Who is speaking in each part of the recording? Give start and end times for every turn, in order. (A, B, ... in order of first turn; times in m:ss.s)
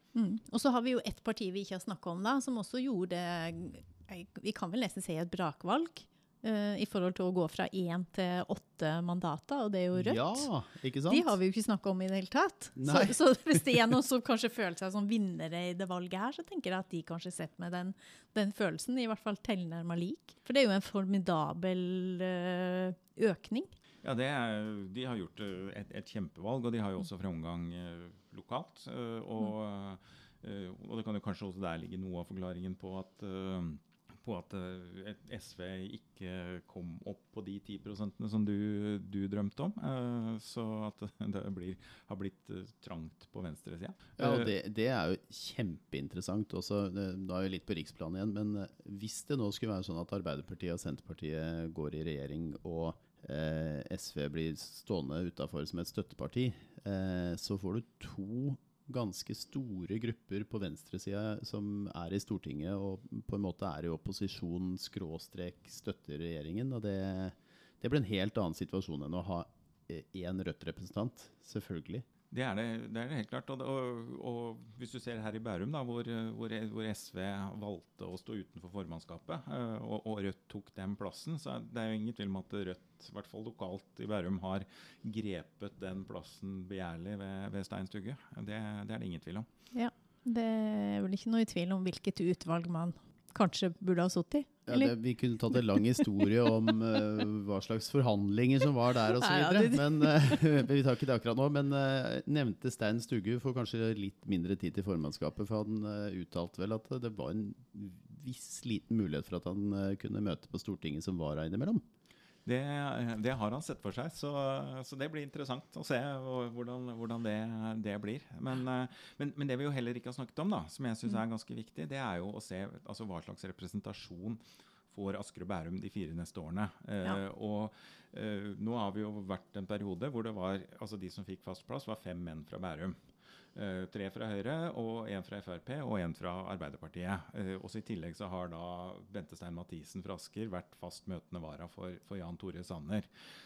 0:00.1-0:10.5 A
0:10.0-0:11.3 B
0:11.1-0:23.7 A
0:12.8-0:13.6 B
0:24.0-0:44.5 C
0:44.2-1:12.0 B
1:12.3-1:29.4 C
1:29.7-1:35.0 A
1:34.6-1:51.8 B
1:35.5-1:36.3 A
1:39.2-1:40.2 A
1:52.4-2:13.0 C
2:13.5-2:23.1 C